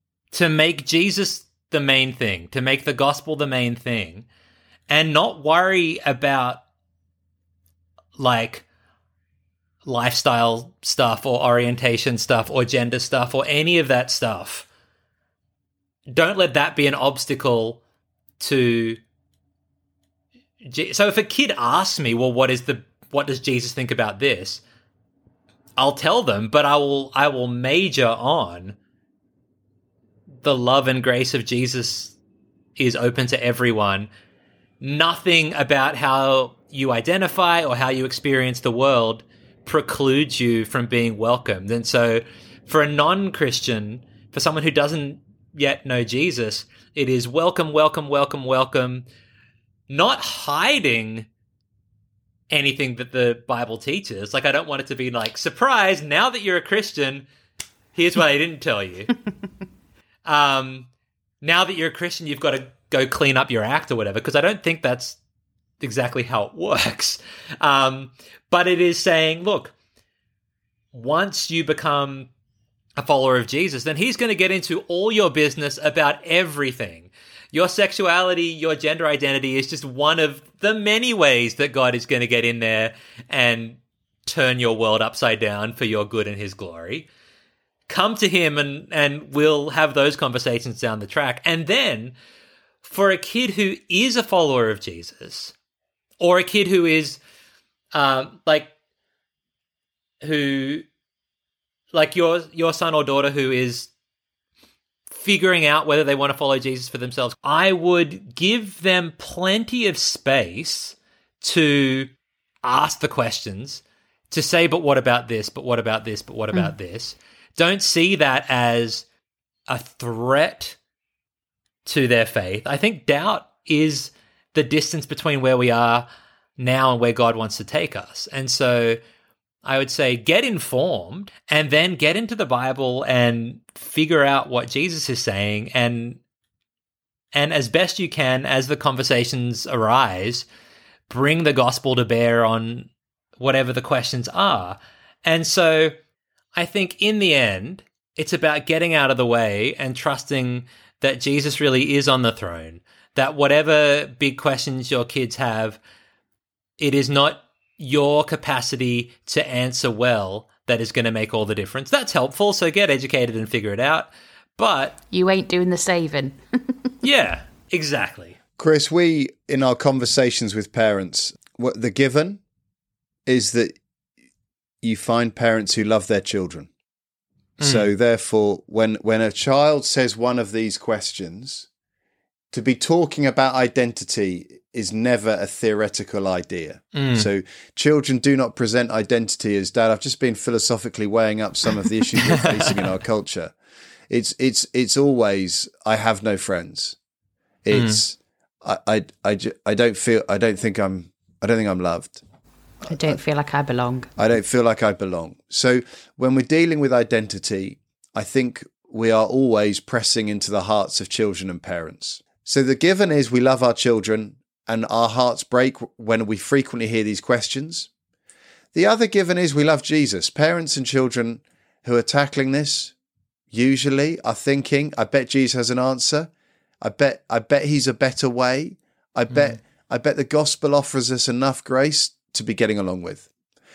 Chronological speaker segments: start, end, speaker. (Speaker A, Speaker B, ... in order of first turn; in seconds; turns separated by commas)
Speaker A: 0.3-4.3, Speaker A: 4.9-6.6, Speaker A: 8.2-8.6, Speaker A: 9.8-14.7, Speaker A: 16.1-17.8, Speaker A: 18.4-19.0, Speaker A: 20.6-24.6, Speaker A: 25.8-28.8, Speaker A: 30.4-32.1, Speaker A: 32.8-34.1, Speaker A: 34.8-49.0, Speaker A: 49.9-51.3, Speaker A: 52.5-57.3, Speaker A: 57.9-59.1, Speaker A: 60.2-60.9, Speaker A: 61.4-65.2, Speaker A: 65.8-69.7, Speaker A: 70.9-72.3, Speaker A: 73.0-87.1, Speaker A: 87.9-92.1, Speaker A: 92.8-95.5, Speaker A: 96.2-97.2, Speaker A: 97.9-98.7, Speaker A: 100.2-100.8, Speaker A: 101.9-103.9, Speaker A: 105.1-112.1, Speaker A: 112.6-119.0, Speaker A: 119.7-120.8, Speaker A: 121.8-126.1, Speaker A: 126.6-129.0, Speaker A: 129.6-136.2, Speaker A: 137.3-140.4, Speaker A: 141.1-145.9, Speaker A: 146.6-155.8, Speaker A: 156.8-165.0, Speaker B: 165.1-166.9, Speaker A: 167.0-168.4, Speaker C: 168.6-172.4, Speaker C: 173.3-173.8, Speaker C: 174.8-176.7, Speaker A: 177.6-177.9, Speaker C: 177.6-181.7, Speaker C: 182.5-193.5, Speaker A: 186.9-187.3, Speaker C: 194.1-197.0, Speaker C: 197.6-202.2, Speaker A: 197.7-198.0, Speaker B: 202.9-204.1, Speaker C: 204.2-217.9, Speaker C: 218.7-222.9, Speaker C: 223.5-226.3, Speaker C: 226.8-233.3